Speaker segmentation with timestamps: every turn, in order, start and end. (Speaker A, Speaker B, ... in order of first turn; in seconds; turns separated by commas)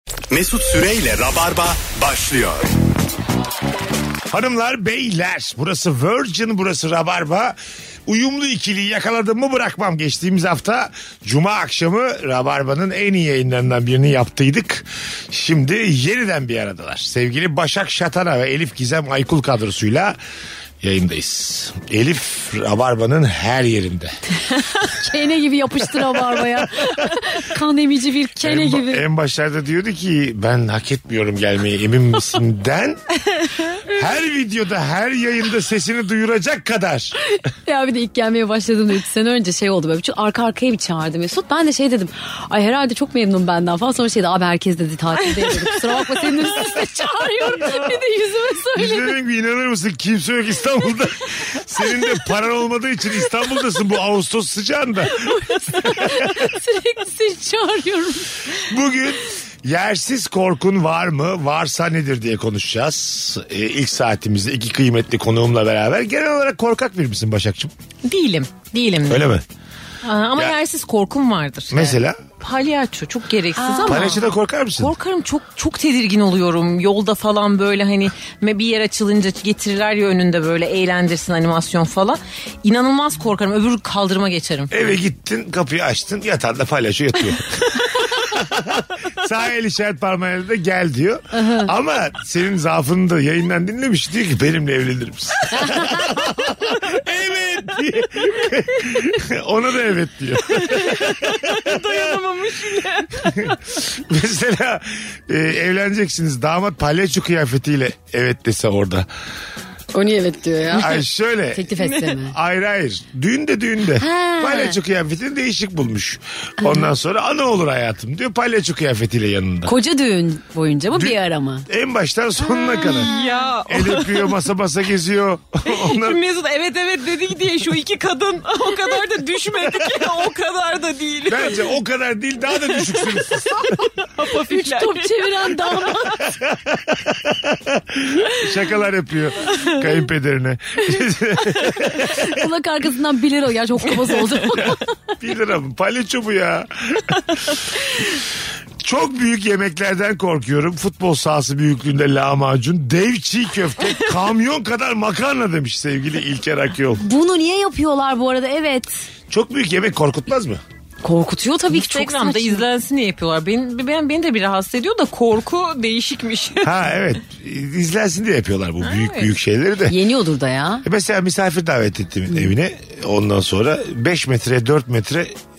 Speaker A: 0.3-2.7, Speaker B: 4.3-7.5, Speaker B: 8.1-20.2, Speaker B: 20.8-24.2, Speaker C: 24.9-29.0, Speaker B: 28.4-33.0, Speaker B: 33.8-37.1, Speaker C: 37.3-49.1, Speaker D: 45.2-46.8, Speaker B: 48.7-56.5, Speaker C: 55.2-58.3, Speaker B: 58.5-67.7, Speaker D: 68.0-69.3, Speaker B: 69.0-69.4, Speaker D: 70.0-74.2, Speaker B: 71.7-72.2, Speaker C: 73.6-74.2, Speaker B: 73.8-74.9, Speaker D: 74.8-84.8, Speaker B: 84.7-102.2, Speaker C: 91.3-91.7, Speaker C: 95.6-96.0, Speaker D: 100.5-103.6, Speaker B: 103.2-109.1, Speaker C: 109.9-112.3, Speaker B: 110.7-119.7, Speaker D: 111.8-112.1, Speaker C: 114.0-114.8, Speaker C: 116.6-116.9, Speaker C: 119.6-121.7, Speaker B: 120.9-123.1, Speaker C: 122.7-123.4, Speaker D: 122.8-124.4, Speaker B: 123.7-126.2, Speaker D: 125.7-131.7, Speaker B: 131.3-133.6, Speaker D: 132.5-135.7, Speaker C: 134.2-136.3, Speaker B: 136.2-142.4, Speaker C: 141.5-144.9, Speaker B: 144.7-147.8, Speaker B: 148.8-157.0, Speaker C: 157.0-158.9, Speaker B: 159.3-160.6, Speaker C: 161.0-162.6, Speaker D: 161.7-166.8, Speaker B: 166.6-170.0, Speaker D: 168.8-169.3, Speaker C: 169.9-170.9, Speaker B: 170.8-175.4